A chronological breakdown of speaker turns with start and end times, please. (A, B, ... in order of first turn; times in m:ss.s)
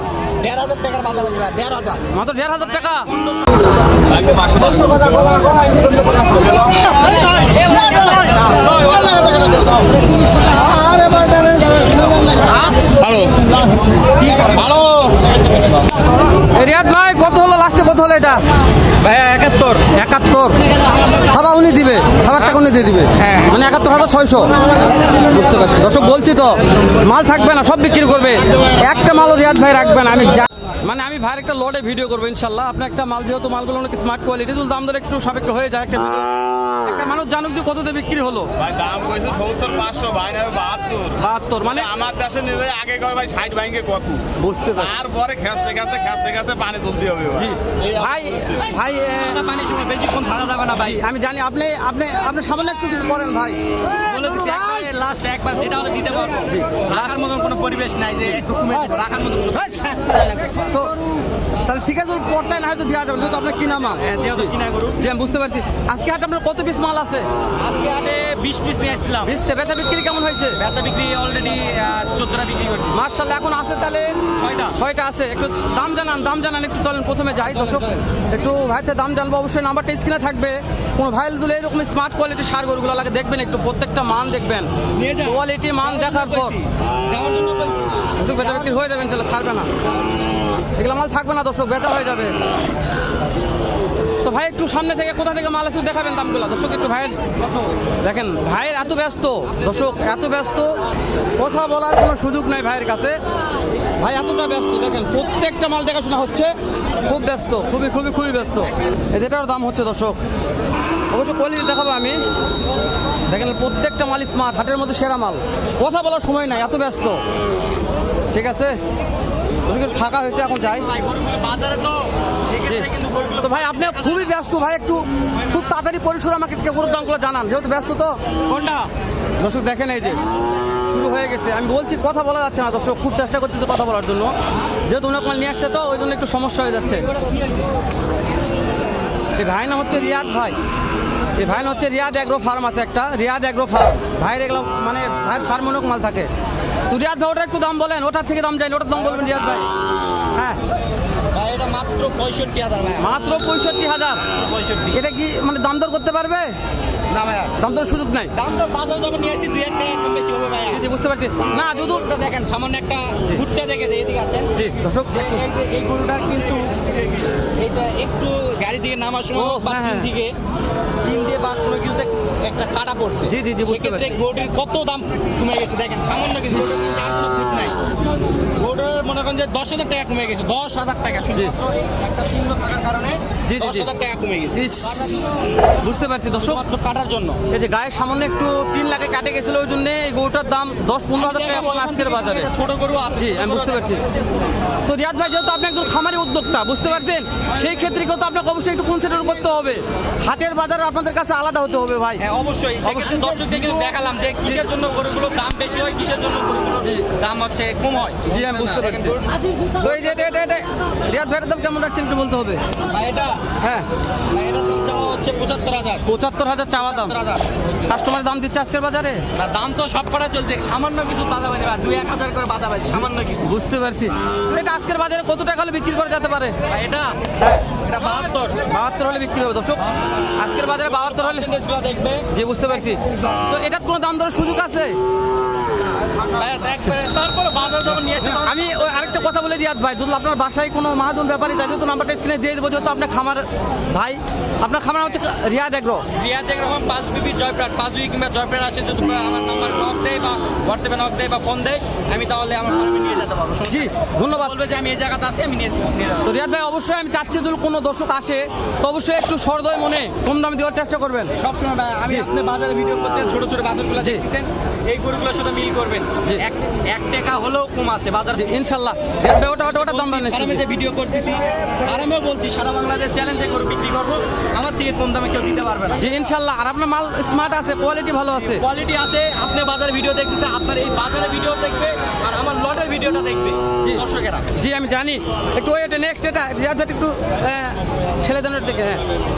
0:00.4-0:02.0 A
0:02.1-0:03.1 B
0:02.6-0:04.7 A
0:04.1-0:06.8 C
0:06.8-0:09.8 A
0:07.7-0:08.0 B
0:10.5-0:12.4 B
0:12.4-0:12.9 A
0:12.9-0:13.6 C
0:14.4-0:15.3 C
0:16.4-0:18.4 B
0:19.0-0:19.9 A
0:19.9-0:20.6 B
0:21.2-0:24.5 B
0:23.2-0:23.7 A
0:25.1-0:36.3 B
0:36.8-0:38.5 B
0:38.6-0:48.6 C
0:41.2-0:41.9 B
0:44.4-0:45.0 B
0:47.4-0:49.4 B
0:49.2-0:51.0 A
0:50.7-0:53.6 B
0:53.9-1:00.7 A
0:54.1-0:54.8 B
0:56.5-0:56.9 B
1:00.6-1:01.0 B
1:01.6-1:07.3 B
1:03.8-1:05.0 A
1:07.6-1:09.3 A
1:09.2-1:10.6 B
1:10.6-1:13.0 A
1:12.9-1:14.2 B
1:14.4-1:14.8 A
1:14.7-1:26.6 B
1:17.4-1:18.2 A
1:25.0-1:28.9 A
1:28.2-1:29.7 B
1:29.8-1:30.2 A
1:30.8-1:32.3 B
1:34.2-1:37.2 B
1:37.4-1:37.8 A
1:38.0-1:40.8 B
1:39.5-1:39.9 A
1:41.4-1:43.2 B
1:44.0-1:50.2 B
1:48.7-1:49.0 A
1:51.1-1:52.2 B
1:53.3-1:57.2 B
1:58.3-1:58.8 B
1:59.7-2:00.9 B
2:00.5-2:04.4 A
2:02.6-2:08.2 B
2:08.5-2:08.9 A
2:09.4-2:10.2 B
2:10.9-2:14.3 B
2:14.9-2:17.1 B
2:16.9-2:17.7 A
2:19.4-2:20.6 B
2:21.4-2:26.3 B
2:26.9-2:29.7 B
2:30.3-2:30.6 B
2:31.3-2:33.1 A
2:33.0-2:34.2 B
2:34.3-2:35.0 A
2:34.9-2:36.5 B
2:37.1-2:37.6 A
2:37.6-2:38.3 B
2:38.3-2:40.8 A
2:40.7-2:42.0 B
2:41.6-2:44.5 A
2:44.6-2:45.4 B
2:45.1-2:50.3 A
2:49.3-2:50.1 B
2:51.0-2:57.8 A
2:53.2-2:54.1 B
2:58.5-3:05.5 A
3:03.5-3:03.9 B
3:04.5-3:06.6 B
3:06.3-3:07.4 A
3:07.5-3:12.5 B
3:11.2-3:14.5 A
3:13.2-3:14.0 B
3:14.8-3:22.2 B
3:22.2-3:29.4 A
3:22.8-3:23.9 B
3:28.3-3:29.2 B
3:29.8-3:32.6 B
3:32.9-3:33.5 A
3:33.6-3:33.9 B
3:34.3-3:36.1 A
3:36.1-3:37.2 B
3:36.8-3:37.5 A
3:37.8-3:39.2 B
3:39.3-3:43.6 A
3:43.4-3:46.6 B
3:46.6-3:48.7 A
3:48.7-3:51.5 B
3:49.8-3:50.3 A
3:50.8-3:52.3 A
3:52.3-3:55.0 B
3:56.2-3:59.2 A
3:58.2-4:06.0 B
4:06.1-4:16.3 A
4:13.7-4:14.5 B
4:16.2-4:21.3 B
4:21.4-4:28.6 A
4:28.3-4:30.6 B
4:29.6-4:36.1 A
4:36.0-4:38.6 B
4:38.4-4:44.6 A
4:43.8-4:49.0 B